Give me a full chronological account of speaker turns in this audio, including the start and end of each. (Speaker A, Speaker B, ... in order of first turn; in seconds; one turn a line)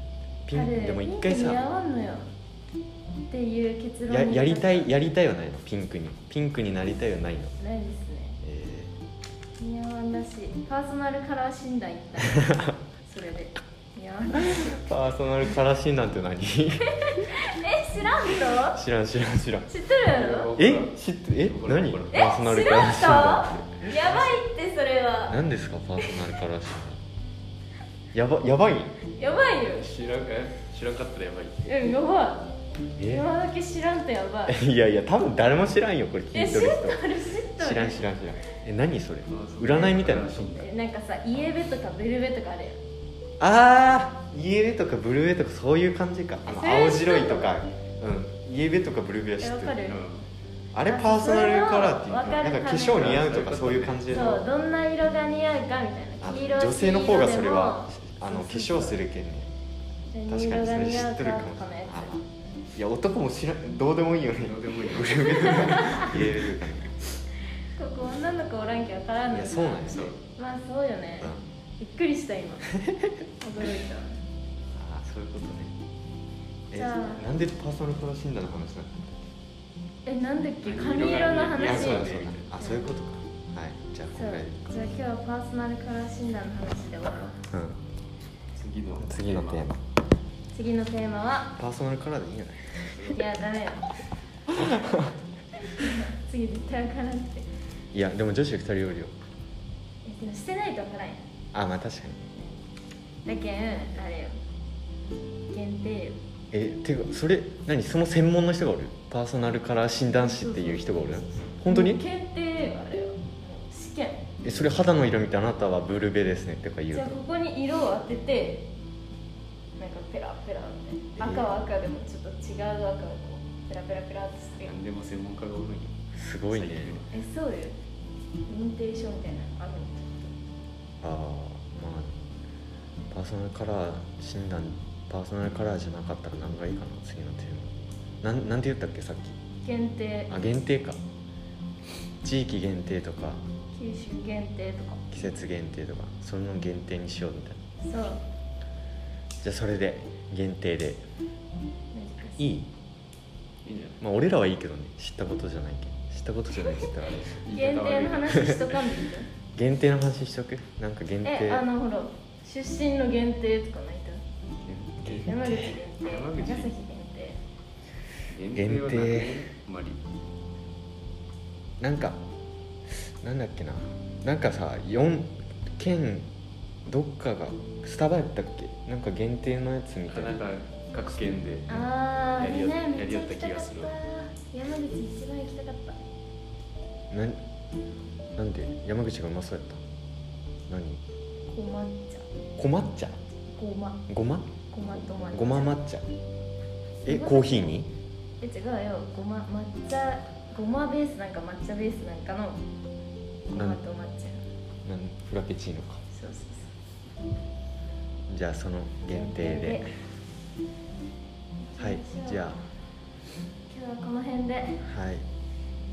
Speaker A: 0.5-1.6
Speaker B: 0.5-2.3
Speaker B: 3.3-4.9
Speaker A: 4.1-7.5
Speaker B: 7.6-8.4
Speaker A: 8.4-8.9
Speaker B: 9.6-14.8
Speaker A: 14.3-17.3
Speaker B: 17.0-18.8
Speaker A: 18.5-19.7
Speaker B: 19.7-20.5
Speaker C: 20.1-22.2
Speaker A: 20.6-23.7
Speaker B: 22.1-25.4
Speaker A: 25.3-27.0
Speaker A: 28.1-29.0
Speaker B: 29.1-29.9
Speaker C: 29.6-31.7
Speaker B: 31.6-32.5
Speaker A: 33.0-33.3
Speaker B: 33.0-34.6
Speaker A: 34.5-37.0
Speaker B: 36.3-38.1
Speaker A: 37.6-40.6
Speaker C: 39.3-40.7
Speaker B: 40.5-42.8
Speaker A: 43.4-49.8
Speaker B: 46.5-47.5
Speaker B: 49.4-50.0
Speaker C: 49.9-50.3
Speaker A: 50.7-54.5
Speaker B: 50.9-53.1
Speaker C: 52.9-54.1
Speaker B: 54.1-59.0
Speaker A: 56.2-59.5
Speaker B: 60.1-62.1
Speaker A: 60.3-66.9
Speaker C: 64.3-66.4
Speaker B: 65.8-66.0
Speaker B: 67.7-72.7
Speaker A: 69.3-70.2
Speaker C: 69.8-70.2
Speaker B: 73.4-74.2
Speaker A: 74.7-75.8
Speaker A: 76.7-79.2
Speaker B: 76.7-77.3
Speaker B: 80.0-82.9
Speaker C: 80.6-82.5
Speaker A: 81.5-84.8
Speaker B: 84.1-87.4
Speaker A: 87.5-87.8
Speaker C: 88.5-89.7
Speaker A: 89.0-89.8
Speaker B: 90.5-91.5
Speaker A: 91.5-93.2
Speaker C: 92.9-93.2
Speaker B: 93.1-93.9
Speaker A: 94.5-95.2
Speaker B: 95.6-97.5
Speaker A: 97.9-99.1
Speaker B: 100.0-101.2
Speaker A: 101.5-102.2
Speaker B: 102.3-102.6
Speaker B: 103.2-104.4
Speaker B: 105.5-106.2
Speaker A: 106.5-112.0
Speaker B: 110.2-114.3
Speaker A: 114.4-117.2
Speaker B: 116.9-118.7
Speaker B: 119.8-124.8
Speaker A: 121.2-121.5
Speaker C: 124.6-127.1
Speaker A: 126.2-127.0
Speaker B: 127.1-127.8
Speaker B: 128.5-130.4
Speaker A: 131.0-132.2
Speaker A: 133.1-139.4
Speaker B: 139.6-140.3
Speaker A: 140.3-141.0
Speaker A: 142.2-143.4
Speaker B: 143.7-145.0
Speaker A: 145.1-147.6
Speaker B: 147.8-148.2
Speaker A: 149.4-151.1
Speaker B: 151.9-152.5
Speaker A: 152.4-152.7
Speaker C: 153.7-154.0
Speaker A: 154.0-157.4
Speaker C: 157.2-158.8
Speaker B: 157.5-159.3
Speaker A: 159.6-161.7
Speaker B: 161.2-164.2
Speaker C: 164.6-165.3
Speaker A: 165.0-165.8
Speaker B: 165.1-167.4
Speaker C: 166.0-166.7
Speaker C: 168.3-170.0
Speaker A: 168.5-169.5
Speaker A: 171.8-172.2
Speaker A: 172.9-176.3
Speaker A: 176.8-180.4
Speaker C: 180.1-181.8
Speaker B: 181.7-186.0
Speaker C: 182.3-183.9
Speaker A: 187.1-187.4
Speaker A: 188.4-189.8
Speaker A: 190.7-191.0
Speaker B: 191.5-192.3
Speaker A: 192.6-193.2
Speaker B: 193.5-194.0
Speaker A: 194.1-194.5
Speaker B: 194.7-195.8
Speaker A: 195.3-196.1
Speaker B: 197.0-197.8
Speaker A: 197.0-197.9
Speaker B: 198.4-202.6
Speaker B: 203.5-204.4
Speaker A: 203.6-203.8
Speaker A: 204.8-206.0
Speaker B: 206.1-206.8
Speaker A: 208.3-209.9
Speaker B: 209.1-209.9
Speaker B: 211.7-212.6
Speaker A: 211.8-212.6
Speaker B: 213.7-214.8
Speaker A: 214.8-215.3